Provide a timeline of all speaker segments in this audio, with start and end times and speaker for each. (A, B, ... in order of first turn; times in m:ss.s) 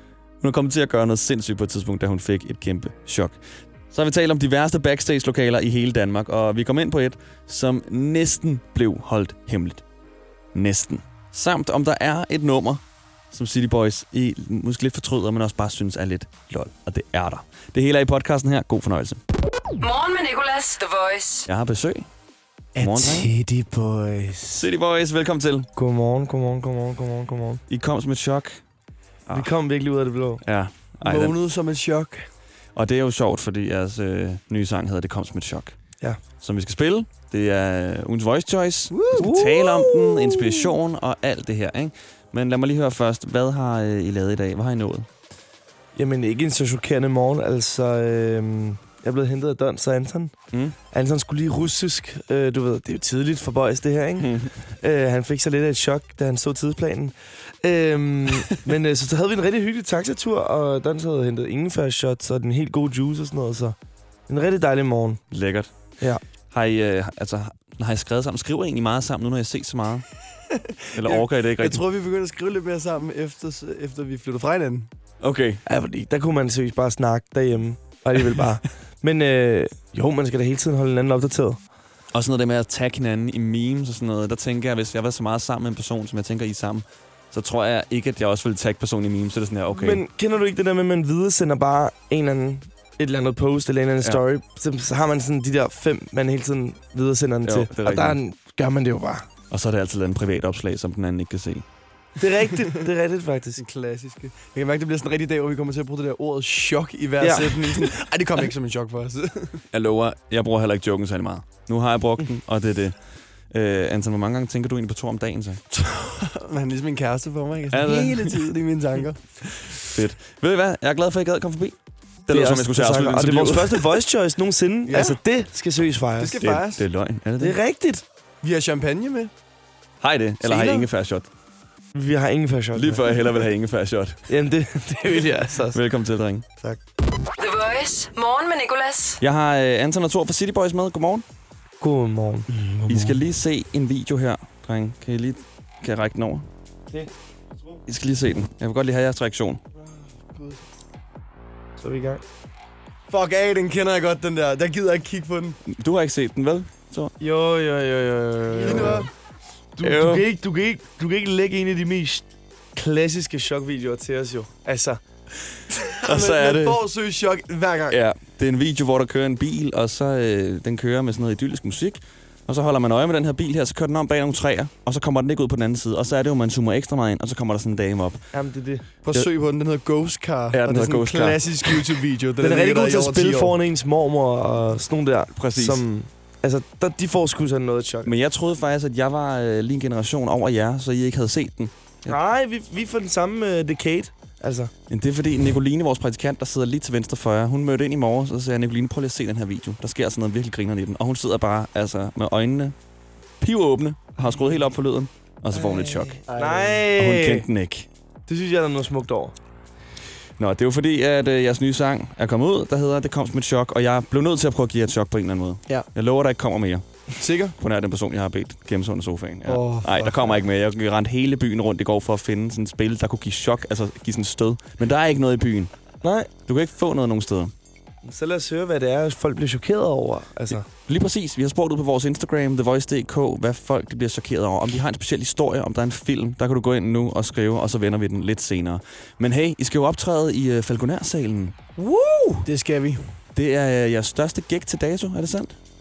0:00.4-0:03.4 A
0:03.9-0:09.8 A
0:10.5-0:19.2 A
0:19.8-0:21.5 B
0:21.4-0:22.1 A
0:22.8-0:23.3 A
0:22.8-0:24.7 C
0:24.5-0:25.7 A
0:25.8-0:27.6 D
0:27.7-0:28.6 A
0:29.3-0:29.5 A
0:29.3-0:30.4 D
0:30.4-0:31.4 A
0:31.0-0:32.2 C
0:32.7-0:35.8 A
0:36.4-0:45.1 A
0:38.9-0:39.3 C
0:39.2-0:40.5 D
0:46.0-0:50.3 D
0:50.9-1:03.8 D
0:54.2-0:54.5 A
1:04.3-1:05.2 D
1:05.3-1:05.7 A
1:06.5-1:10.0 A
1:10.9-1:14.9 C
1:10.9-1:11.8 A
1:15.2-1:15.6 A
1:15.6-1:21.6 D
1:22.1-1:30.0 A
1:29.7-1:39.3 D
1:37.4-1:38.2 A
1:39.5-1:41.6 A
1:42.2-1:43.6 D
1:43.6-1:49.6 C
1:47.2-1:47.9 D
1:49.7-1:52.9 A
1:53.5-1:55.6 A
1:55.7-1:59.8 C
1:57.7-1:58.6 A
1:59.8-2:01.8 A
2:02.3-2:04.0 A
2:02.3-2:06.4 D
2:04.9-2:05.2 C
2:06.2-2:06.8 C
2:06.4-2:07.6 A
2:07.4-2:08.0 D
2:08.4-2:09.3 C
2:10.0-2:11.3 A
2:10.4-2:10.9 C
2:11.9-2:13.1 D
2:12.7-2:14.2 A
2:14.3-2:15.8 D
2:15.7-2:16.4 A
2:17.4-2:19.2 B
2:19.2-2:21.2 A
2:21.8-2:22.5 D
2:22.5-2:23.2 C
2:22.9-2:26.5 A
2:27.9-2:29.6 A
2:30.3-2:30.6 C
2:31.8-2:32.2 D
2:33.1-2:35.6 C
2:35.6-2:37.1 A
2:37.2-2:39.1 D
2:38.6-2:39.1 C
2:38.7-2:39.0 A
2:39.8-2:45.0 D
2:39.8-2:40.2 A
2:45.5-2:46.8 A
2:45.7-2:48.0 C
2:47.9-2:58.2 A
2:58.3-2:58.8 D
2:59.0-3:03.6 C
3:00.5-3:01.8 A
3:02.4-3:08.1 D
3:05.3-3:05.8 A
3:08.0-3:12.2 A
3:12.0-3:14.7 D
3:14.9-3:22.8 A
3:23.4-3:26.2 A
3:25.5-3:27.4 D
3:26.3-3:26.8 C
3:27.0-3:27.9 A
3:28.3-3:29.3 D
3:30.4-3:36.8 A
3:37.2-3:37.5 C
3:37.6-3:45.7 A
3:39.4-3:40.4 C
3:46.0-3:46.3 D
3:46.5-3:47.5 A
3:48.0-3:50.6 D
3:50.9-4:01.6 A
4:01.8-4:02.4 D
4:02.4-4:03.0 C
4:03.3-4:05.6 A